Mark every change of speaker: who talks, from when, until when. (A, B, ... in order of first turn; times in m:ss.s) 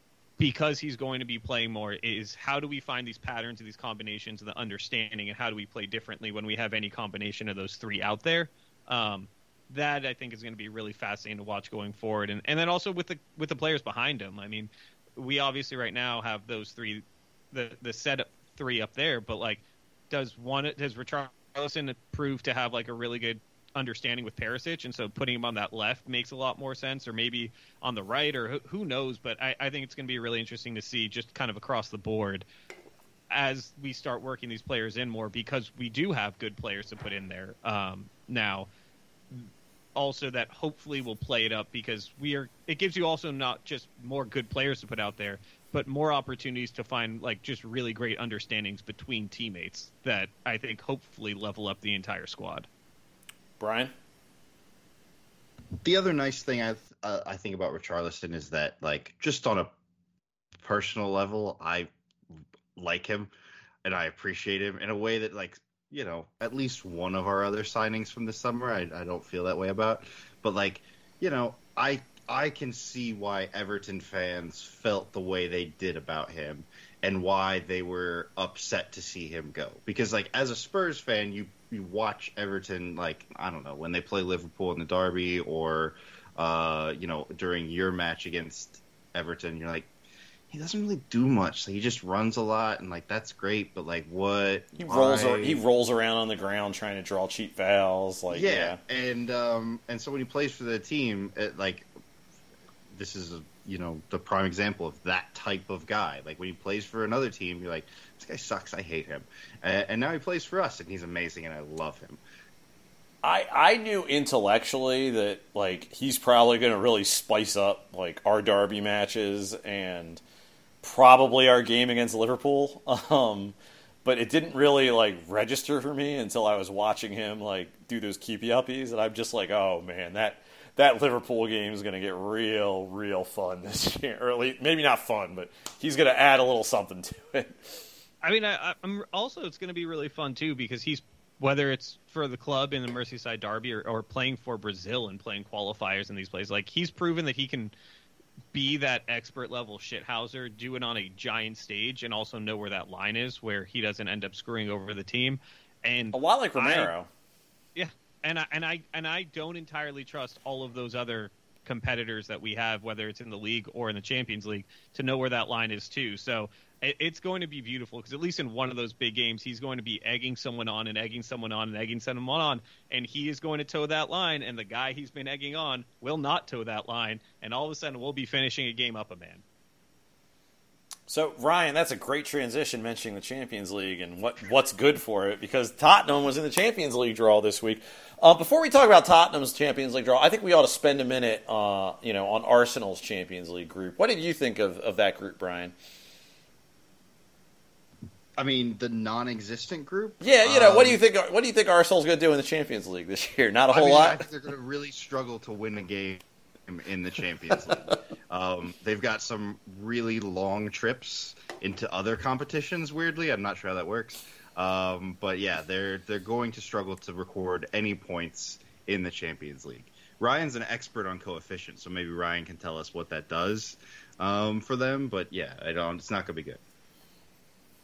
0:00.4-0:32.4 A
0:33.3-0:38.7 A
0:39.3-0:52.7 A
0:53.6-0:53.9 B
0:55.8-0:59.7 C
1:00.6-1:01.9 C
1:02.8-1:03.3 C
1:03.8-1:29.9 C
1:30.5-1:35.6 C
1:34.8-1:38.8 B
1:38.3-1:41.9 C
1:42.9-1:52.2 C
1:53.2-2:00.2 B
2:00.8-2:17.9 B
2:18.2-2:27.7 A
2:28.5-2:36.9 A
2:36.1-2:37.1 B
2:37.8-2:59.4 A
3:01.1-3:15.7 B
3:18.4-3:21.0 C
3:20.2-3:24.2 B
3:23.7-3:46.6 C